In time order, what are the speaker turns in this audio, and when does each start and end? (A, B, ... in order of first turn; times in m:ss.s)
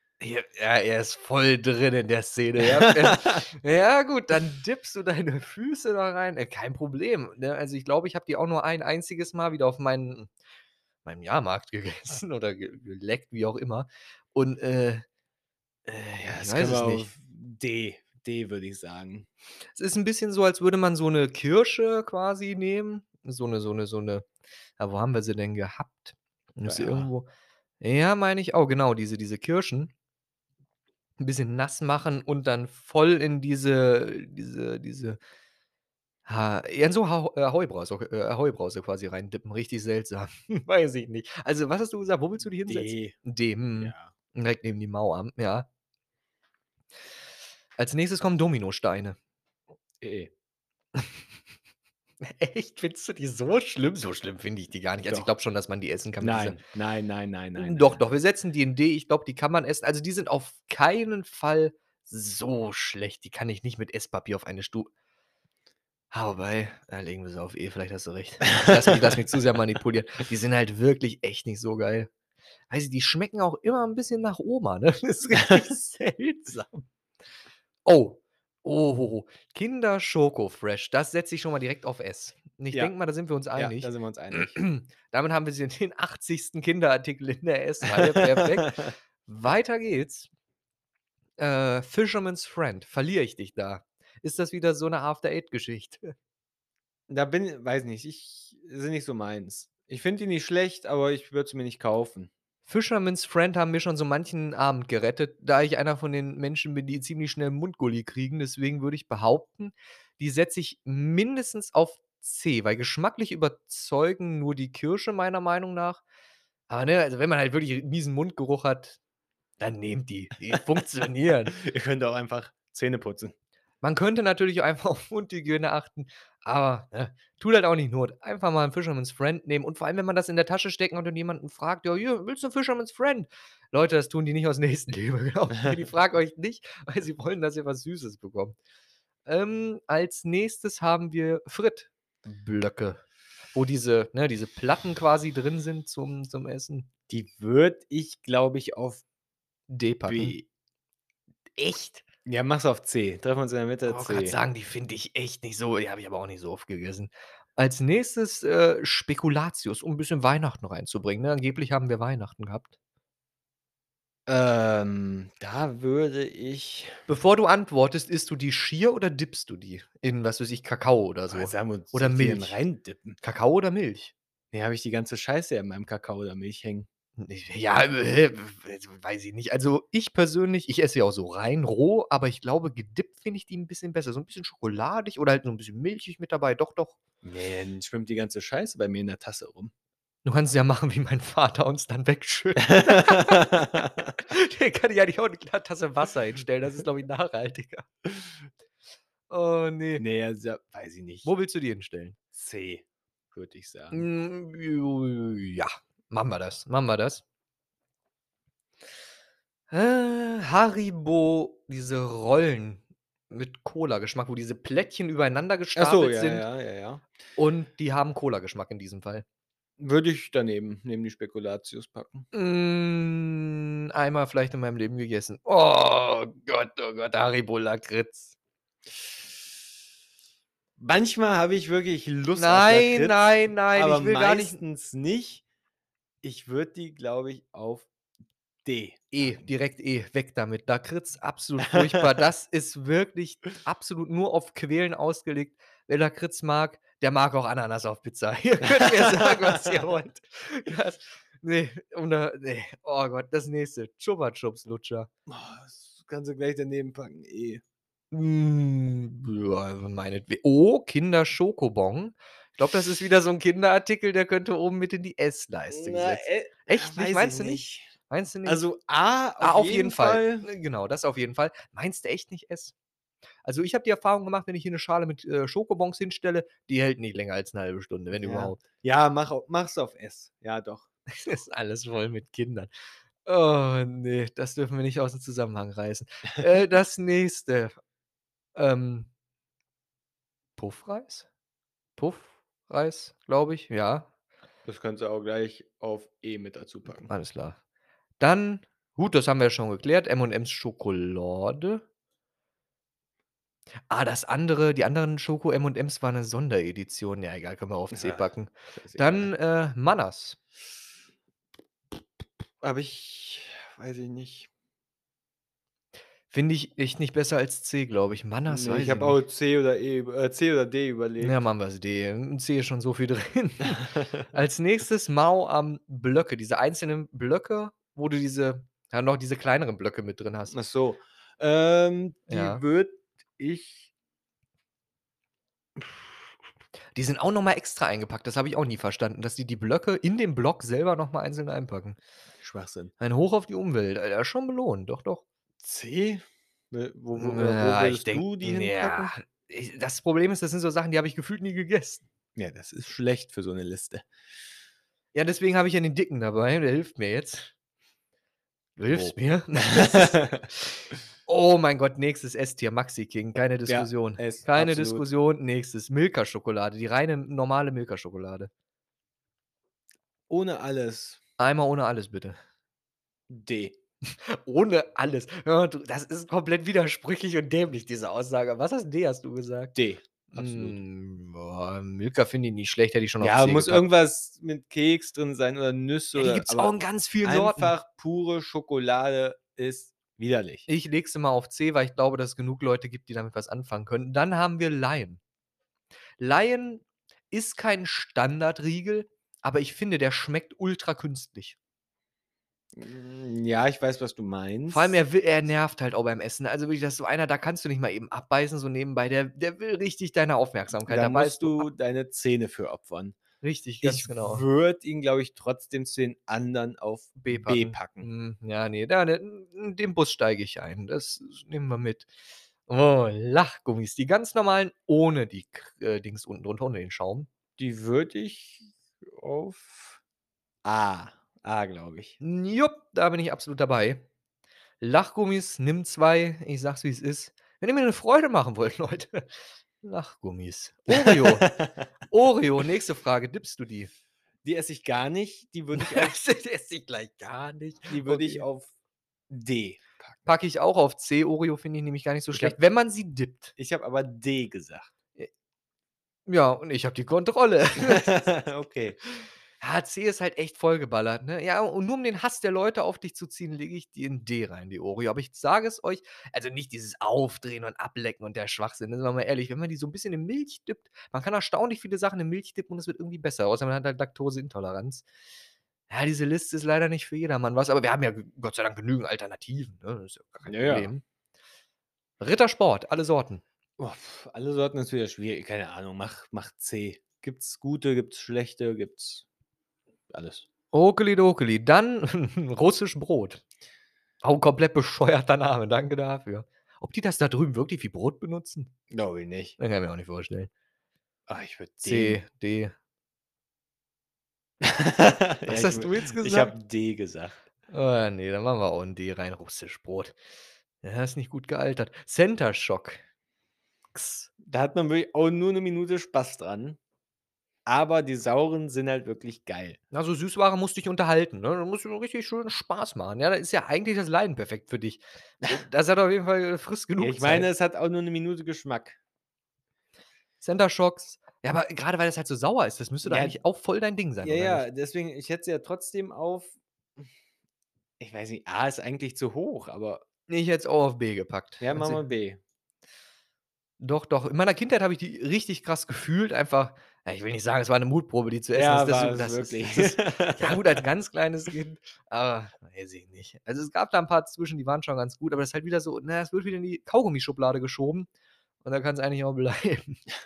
0:00.2-0:10.3 A
0:02.7-0:03.4 B
0:11.0-0:15.0 A
0:15.8-0:17.1 A
0:16.2-0:19.3 B
0:19.7-0:24.3 A
0:24.8-0:27.3 A
0:26.6-0:27.1 B
0:27.8-0:29.9 A
0:31.2-0:35.2 A
0:36.2-0:45.7 A
0:42.7-0:43.2 B
0:43.8-0:44.1 B
0:47.8-0:49.2 A
0:50.0-0:50.3 B
0:52.2-0:56.6 A
0:56.2-0:58.0 B
0:57.6-1:04.9 A
1:06.1-1:12.1 A
1:12.7-1:16.8 A
1:17.8-1:30.3 A
1:23.6-1:24.6 B
1:27.9-1:28.9 B
1:31.4-1:36.1 A
1:37.1-1:42.3 B
1:42.7-1:56.0 A
1:56.7-1:59.0 A
1:59.6-2:01.6 A
2:01.5-2:03.3 B
2:03.8-2:18.6 A
2:19.3-2:26.9 A
2:27.1-2:29.0 B
2:29.7-2:30.4 A
2:30.1-2:30.4 B
2:31.6-2:32.0 A
2:32.2-2:34.4 B
2:33.8-2:42.7 A
2:44.3-2:47.0 B
2:47.1-2:52.6 A
2:51.3-2:53.2 B
2:53.2-2:54.1 A
2:54.5-2:56.9 B
2:57.2-3:07.0 A
3:07.2-3:09.7 B
3:10.2-3:17.9 A
3:12.7-3:13.9 B
3:19.3-3:20.0 A
3:20.0-3:21.3 B
3:21.2-3:22.2 A
3:22.3-3:24.0 B
3:23.9-3:27.2 A
3:29.7-3:36.4 A
3:35.8-3:37.0 B
3:37.4-3:39.2 A
3:39.8-3:42.3 B
3:42.3-3:48.3 A
3:50.8-3:55.4 B
3:52.4-3:54.6 A
3:56.2-3:57.9 B
3:58.6-3:59.4 B
3:59.1-4:15.1 A
4:08.7-4:09.6 B
4:15.3-4:17.6 B
4:18.1-4:28.6 A
4:25.7-4:27.9 B
4:28.4-4:30.5 B
4:29.4-4:32.7 A
4:33.4-4:38.6 A
4:38.1-4:40.9 B
4:41.1-4:42.7 A
4:43.2-4:47.7 A
4:48.6-4:49.1 A
4:50.6-4:51.3 A
4:52.0-4:54.1 A
4:54.6-4:57.1 B
4:57.0-4:57.6 A
4:58.2-5:01.8 A
5:03.9-5:10.4 A
5:07.9-5:09.3 B
5:12.6-5:14.5 B
5:16.3-5:19.2 A
5:18.5-5:21.4 B
5:21.2-5:30.5 A
5:30.5-5:33.9 B
5:32.3-5:32.6 A
5:36.9-5:42.0 A
5:42.4-5:42.9 B
5:43.0-5:45.2 A
5:45.6-5:49.1 B
5:47.2-5:52.0 A
5:52.4-5:54.0 B
5:55.1-5:57.5 A
5:58.8-6:08.5 A
5:59.7-6:00.4 B
6:03.7-6:05.0 B
6:10.3-6:11.2 B
6:11.4-6:12.4 A
6:13.3-6:13.8 B
6:14.1-6:19.8 A
6:19.7-6:20.8 B
6:20.3-6:23.8 A
6:23.2-6:30.6 B
6:26.2-6:27.7 A
6:30.7-6:35.2 A
6:36.2-6:41.6 A
6:42.7-6:45.0 B
6:44.7-6:51.7 A
6:50.9-6:53.2 B
6:53.4-6:54.4 A
6:53.8-6:58.1 B
6:57.2-7:02.1 A
7:02.7-7:07.3 A
7:07.6-7:10.0 B
7:10.6-7:12.2 B
7:12.2-7:14.0 A
7:14.8-7:23.9 A
7:21.0-7:21.7 B
7:24.4-7:26.2 B
7:25.7-7:28.4 A
7:27.9-7:28.7 B
7:29.3-7:30.2 B
7:30.2-7:33.5 A
7:33.6-7:34.9 B
7:36.3-7:38.3 A
7:37.8-7:39.0 B
7:39.2-7:55.0 A
7:55.9-8:01.0 A
8:00.4-8:00.9 B
8:02.2-8:03.4 A
8:03.8-8:09.2 B
8:10.1-8:10.5 B
8:10.7-8:13.4 A
8:14.2-8:18.7 A
8:18.9-8:19.6 B
8:19.6-8:20.5 A
8:21.3-8:22.2 B
8:21.8-8:22.7 A
8:24.6-8:27.4 B
8:25.5-8:26.5 A
8:27.7-8:30.2 A
8:30.8-8:33.0 A
8:33.9-8:34.3 A
8:34.4-8:36.8 B
8:37.6-8:39.8 B
8:39.9-8:47.5 A
8:47.0-8:49.0 B
8:50.4-8:54.6 A
8:53.0-8:53.4 B
8:54.2-8:57.0 B
8:58.0-9:00.0 B
9:00.3-9:02.0 A
9:01.6-9:02.4 B
9:03.8-9:18.1 A
9:08.5-9:10.8 B
9:18.6-9:20.0 A